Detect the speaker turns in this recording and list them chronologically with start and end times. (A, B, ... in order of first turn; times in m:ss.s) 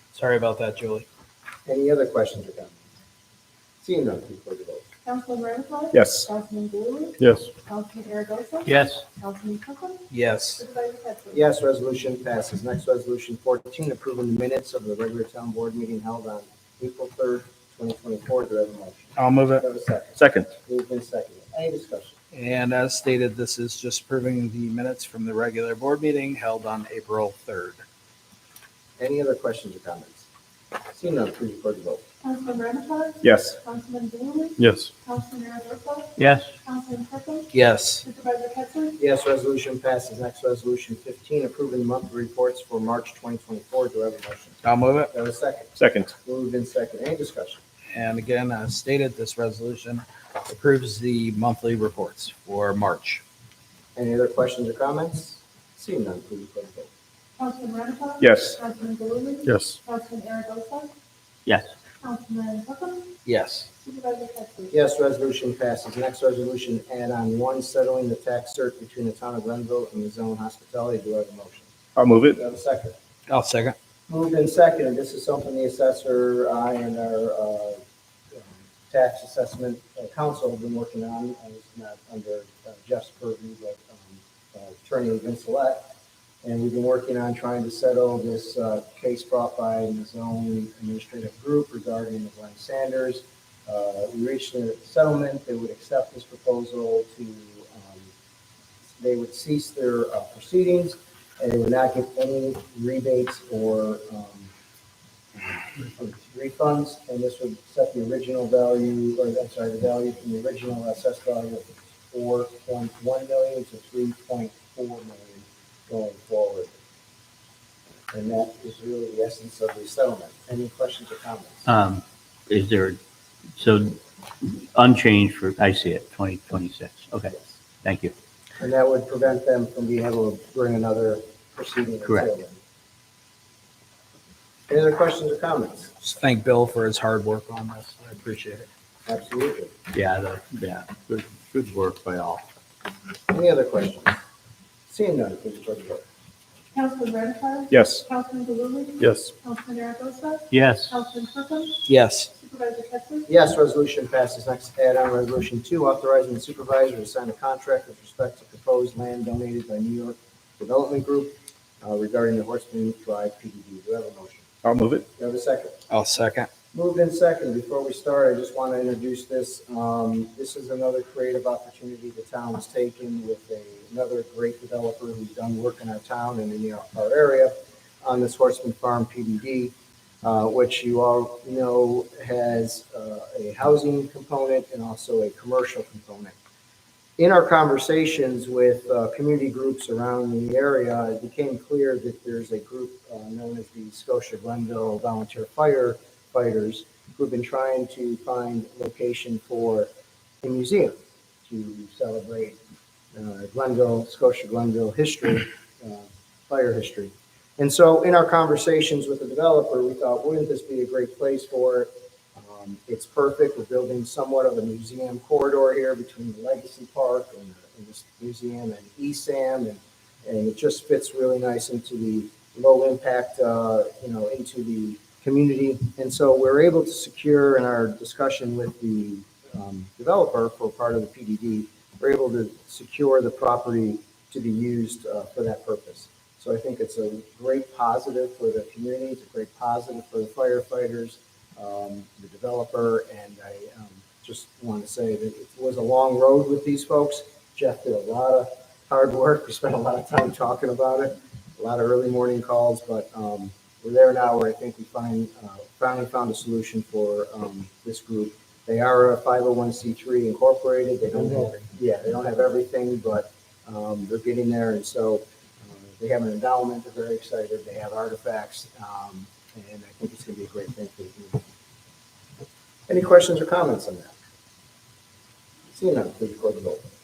0:00.2-0:01.1 A
0:01.7-0:02.8 B
0:03.8-0:04.8 B
0:05.1-0:10.0 C
0:05.9-0:06.3 D
0:07.2-0:07.5 D
0:08.7-0:09.0 E
0:10.1-0:10.6 A
0:10.6-0:11.4 C
0:11.3-0:22.2 B
0:19.2-0:19.6 A
0:20.2-0:20.5 D
0:22.3-0:27.8 A
0:29.0-0:30.2 B
0:30.9-0:32.0 B
0:32.2-0:37.5 C
0:33.2-0:33.6 D
0:34.6-0:34.9 D
0:36.2-0:36.5 E
0:37.5-0:38.0 A
0:38.0-0:38.9 C
0:39.0-0:44.6 B
0:44.6-0:45.1 A
0:45.1-0:47.6 B
0:45.8-0:46.1 D
0:47.9-0:53.2 A
0:54.0-0:56.9 B
0:57.4-1:00.9 C
0:58.2-0:58.6 D
0:59.5-0:59.8 D
1:02.0-1:03.1 C
1:03.2-1:03.7 A
1:03.8-1:04.7 C
1:04.7-1:11.7 B
1:12.0-1:12.4 D
1:12.3-1:13.0 B
1:13.3-1:13.8 A
1:14.1-1:17.8 B
1:18.4-1:25.8 B
1:26.4-1:38.1 B
1:39.0-1:44.5 B
1:45.4-1:56.7 B
1:58.1-2:01.7 B
2:01.7-2:03.0 E
2:03.6-2:08.1 E
2:08.6-2:12.6 B
2:14.7-2:16.0 B
2:16.0-2:18.7 A
2:19.1-2:19.7 B
2:19.9-2:22.4 E
2:20.0-2:20.6 A
2:21.7-2:22.0 A
2:23.3-2:24.2 B
2:24.9-2:26.0 B
2:26.7-2:31.8 C
2:27.7-2:28.0 D
2:29.0-2:29.3 D
2:30.5-2:30.9 E
2:31.9-2:32.3 A
2:32.4-2:33.3 C
2:33.3-2:44.5 B
2:44.6-2:45.0 D
2:45.2-2:45.8 B
2:45.9-2:46.5 A
2:46.7-3:06.4 B
3:07.2-3:19.9 B
3:20.4-3:20.9 B
3:21.5-3:22.6 B
3:23.1-4:25.2 B
4:25.8-4:31.4 B
4:32.9-4:34.2 B
4:35.7-4:36.8 B